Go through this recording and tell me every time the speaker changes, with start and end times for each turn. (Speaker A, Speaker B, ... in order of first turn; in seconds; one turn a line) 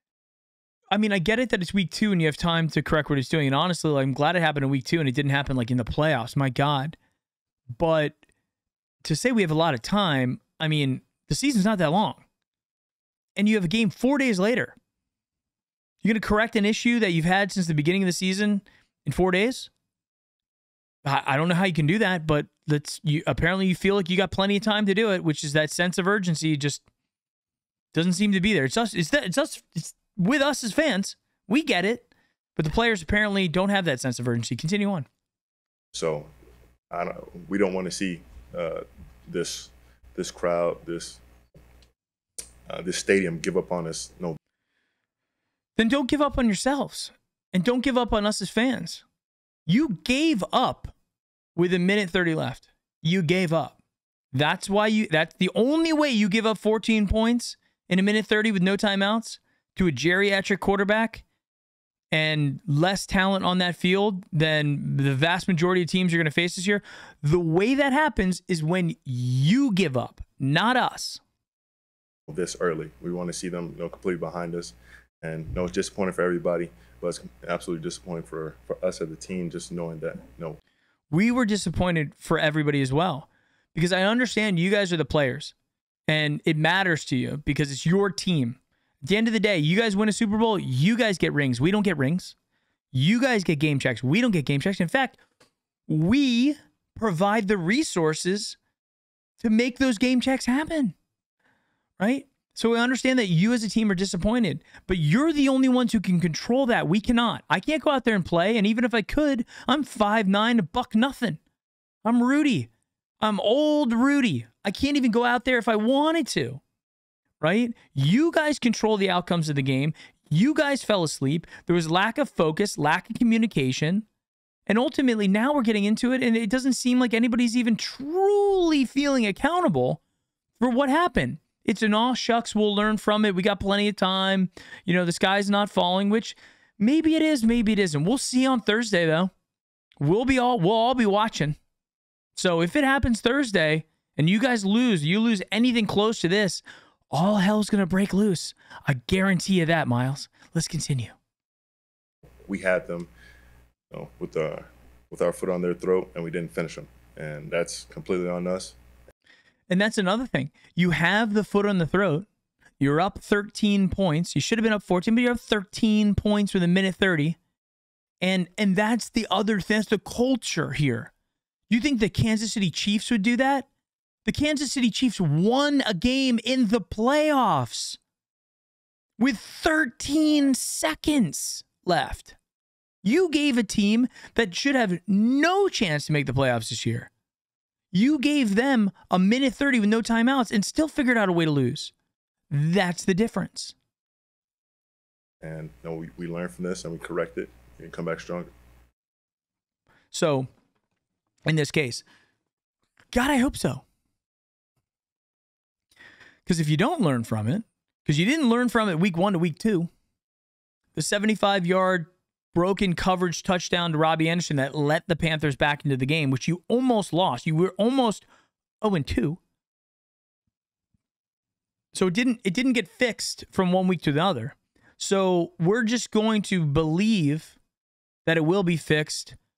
Speaker A: 0.9-7.0
Speaker A: 7.8-8.2
Speaker A: 9.0-12.2
Speaker A: 13.3-14.7
Speaker A: 16.0-19.7
Speaker A: 21.0-26.8
Speaker A: 27.9-35.1
Speaker B: 35.9-36.3
Speaker B: 36.9-41.2
Speaker B: 42.7-44.4
Speaker A: 45.8-49.0
Speaker A: 49.6-50.9
Speaker A: 51.5-53.8
Speaker A: 54.3-61.2
Speaker A: 62.1-71.2
Speaker B: 72.3-80.6
Speaker A: 81.1-85.5
Speaker A: 86.1-92.3
Speaker A: 92.9-95.2
Speaker A: 95.9-98.6
Speaker A: 99.4-100.9
Speaker A: 102.0-111.4
Speaker A: 112.0-112.7
Speaker A: 113.2-116.6
Speaker A: 117.4-124.0
Speaker A: 124.7-130.0
Speaker A: 130.6-139.3
Speaker A: 140.0-141.6
Speaker A: 142.3-151.1
Speaker B: 152.5-153.1
Speaker B: 153.9-158.8
Speaker A: 159.7-162.3
Speaker A: 162.8-167.4
Speaker A: 168.2-171.1
Speaker A: 171.7-173.7
Speaker A: 174.2-178.0
Speaker A: 179.2-182.3
Speaker A: 183.0-187.1
Speaker A: 187.9-191.9
Speaker A: 192.5-193.8
Speaker B: 195.4-198.5
Speaker A: 200.1-200.5
Speaker A: 201.4-202.0
Speaker A: 203.1-203.8
Speaker A: 206.4-209.9
Speaker A: 210.9-218.3
Speaker A: 218.8-219.4
Speaker A: 221.9-227.6
Speaker A: 228.2-229.3